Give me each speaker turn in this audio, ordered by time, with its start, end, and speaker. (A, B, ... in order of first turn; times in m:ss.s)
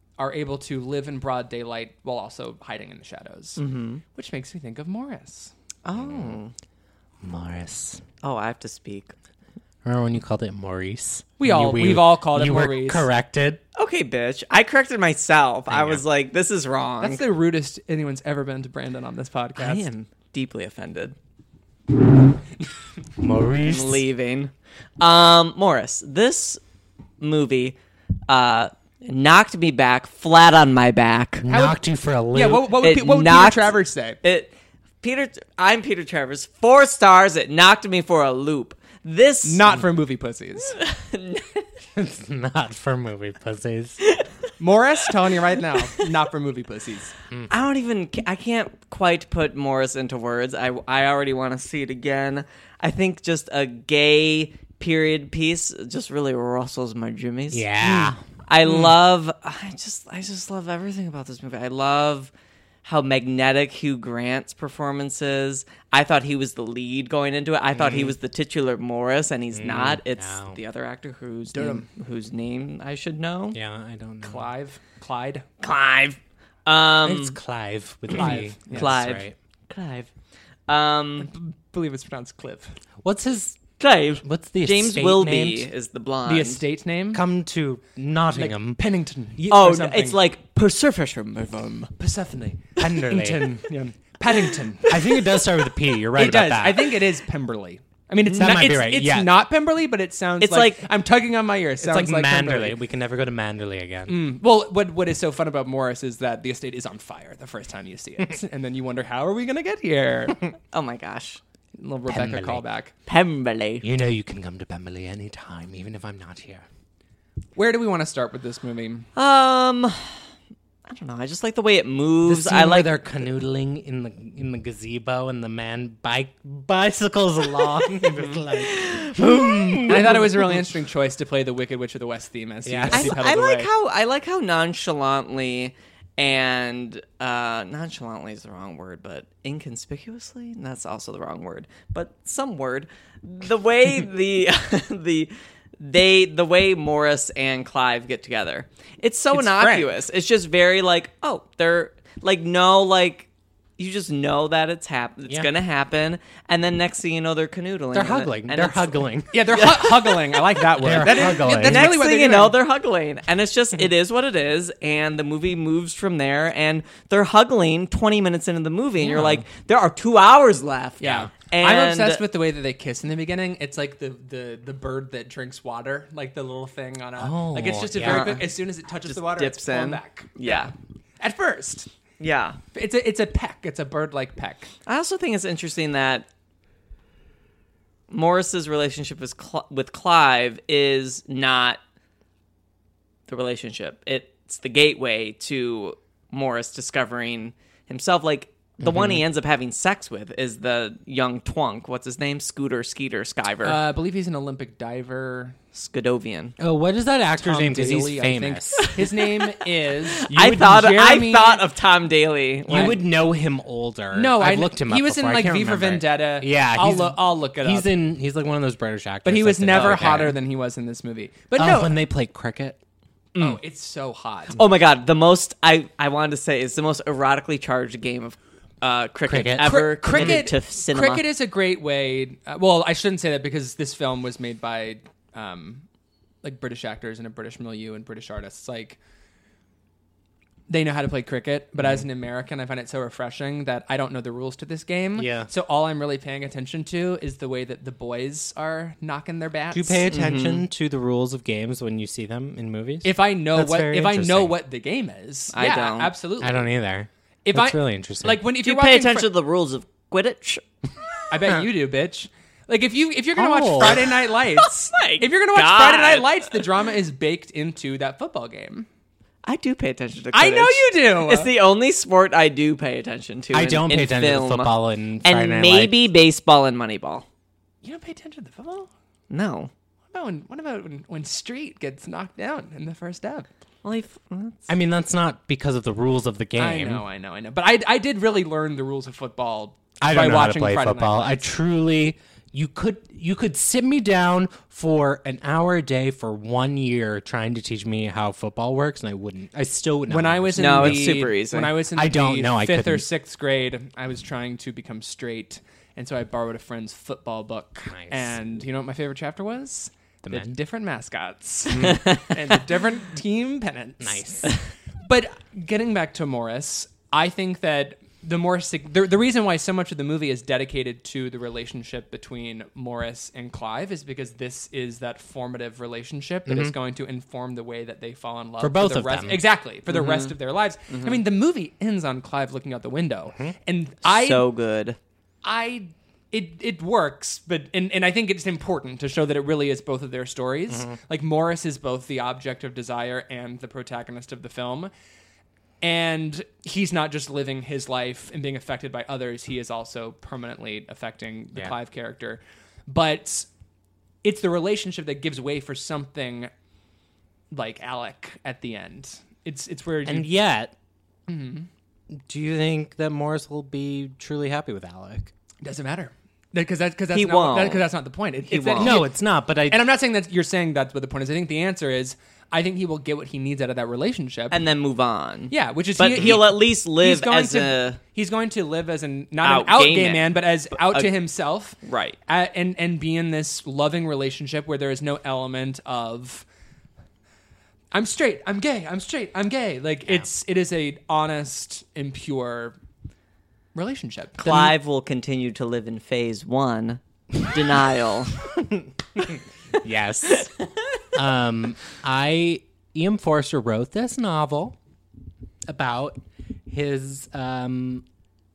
0:00.2-0:03.6 A
0:03.6-0:04.0 B
0:04.1-0:05.5 A
0:05.8-0:06.5 B
0:06.0-0:06.4 C
0:07.2-0:08.0 C
0:08.2-0:09.1 B
0:09.8-0:13.6 C
0:11.4-0:13.1 A
0:13.8-0:17.2 B
0:15.7-0:16.0 C
0:17.0-0:19.9 A
0:19.6-0:21.2 B
0:23.2-0:24.0 C
0:23.6-0:26.6 B
0:27.2-0:27.8 B
0:28.3-0:31.4 B
0:31.4-0:32.7 C
0:31.5-0:31.8 A
0:32.3-0:34.2 A
0:32.8-0:39.7 B
0:39.4-0:40.8 A
0:40.7-0:41.7 B
0:42.0-0:44.0 C
0:44.6-0:47.1 A
0:47.5-1:02.3 B
0:57.5-0:58.2 C
1:02.8-1:13.6 B
1:07.7-1:08.2 C
1:09.5-1:10.6 C
1:11.5-1:11.9 A
1:13.5-1:14.5 C
1:14.2-1:15.5 A
1:15.6-1:17.4 B
1:17.0-1:19.4 C
1:18.1-1:19.0 A
1:18.1-1:20.1 B
1:20.7-1:21.3 B
1:21.2-1:22.8 A
1:23.0-1:23.6 C
1:23.8-1:26.6 B
1:24.2-1:25.7 C
1:26.3-1:27.2 A
1:27.1-1:28.8 C
1:28.3-1:30.2 A
1:29.5-1:31.9 B
1:32.0-1:35.0 A
1:32.8-1:33.6 C
1:34.9-1:37.0 C
1:36.1-1:42.8 A
1:38.3-1:39.3 C
1:40.4-1:40.8 B
1:41.8-1:44.2 C
1:44.1-1:50.4 A
1:50.6-1:51.4 B
1:51.8-1:52.9 A
1:52.1-1:52.6 C
1:53.1-1:53.8 B
1:53.8-1:56.6 C
1:57.6-1:59.1 A
1:59.2-2:00.2 B
2:00.9-2:03.0 B
2:02.2-2:10.3 C
2:07.8-2:10.5 B
2:09.9-2:13.7 A
2:12.7-2:13.2 C
2:12.9-2:39.0 B
2:29.3-2:29.9 A
2:37.9-2:39.6 C
2:39.3-2:42.6 A
2:39.6-2:52.2 B
2:40.8-2:42.0 C
2:49.0-2:49.4 C
2:51.0-3:01.9 A
2:51.0-2:51.3 C
2:57.2-2:58.4 C
2:58.0-2:58.5 B
2:59.0-3:00.7 B
3:02.2-3:02.6 B
3:02.7-3:04.7 A
3:04.9-3:06.3 B
3:08.1-3:11.8 B
3:13.3-3:23.8 B
3:18.8-3:19.2 C
3:23.6-3:25.6 A
3:25.7-3:26.6 B
3:26.6-3:28.9 C
3:27.4-3:31.6 A
3:28.8-3:29.3 B
3:30.1-3:33.0 B
3:32.7-3:40.4 C
3:34.1-3:37.9 A
3:39.2-3:41.9 A
3:39.8-3:40.3 B
3:41.6-3:42.8 C
3:43.4-3:43.6 B
3:43.4-3:44.6 A
3:44.6-3:51.2 B
3:49.3-3:50.4 C
3:49.6-3:55.8 A
3:56.4-3:59.0 A
4:00.7-4:10.0 A
4:05.2-4:05.5 C
4:09.7-4:14.6 C
4:10.1-4:10.6 B
4:13.0-4:16.6 A
4:15.5-4:16.1 B
4:16.4-4:18.4 C
4:17.4-4:19.3 A
4:18.6-4:20.6 B
4:21.3-4:28.9 A
4:23.4-4:24.1 C
4:23.8-4:26.7 B
4:29.4-4:37.3 B
4:30.3-4:31.5 A
4:33.5-4:36.0 C
4:37.8-4:38.9 A
4:39.3-4:39.7 B
4:40.1-4:43.5 A
4:43.8-4:44.7 B
4:44.7-4:47.0 C
4:46.6-4:51.4 A
4:50.0-5:01.2 C
5:00.1-5:34.4 A
5:00.6-5:01.7 B
5:02.0-5:03.0 C
5:07.9-5:08.4 C
5:10.2-5:10.6 C
5:11.7-5:12.0 C
5:11.8-5:12.3 B
5:14.0-5:14.6 C
5:26.5-5:26.8 C
5:28.6-5:29.4 C
5:29.9-5:30.4 B
5:30.9-5:31.2 B
5:34.0-5:35.0 B
5:35.4-5:44.9 A
5:45.8-5:53.5 A
5:54.2-5:56.5 A
5:57.5-6:00.3 A
6:00.0-6:00.8 C
6:01.3-6:01.7 A
6:02.2-6:05.3 C
6:05.6-6:14.6 A
6:07.1-6:07.9 B
6:08.5-6:09.0 B
6:08.8-6:09.8 C
6:14.5-6:18.0 B
6:15.5-6:26.5 A
6:19.4-6:21.1 B
6:21.8-6:22.2 B
6:27.9-6:32.8 A
6:33.8-6:34.7 A
6:34.4-6:38.4 B
6:38.4-6:40.5 C
6:41.1-6:44.8 C
6:45.7-6:46.2 C
6:46.7-6:48.1 C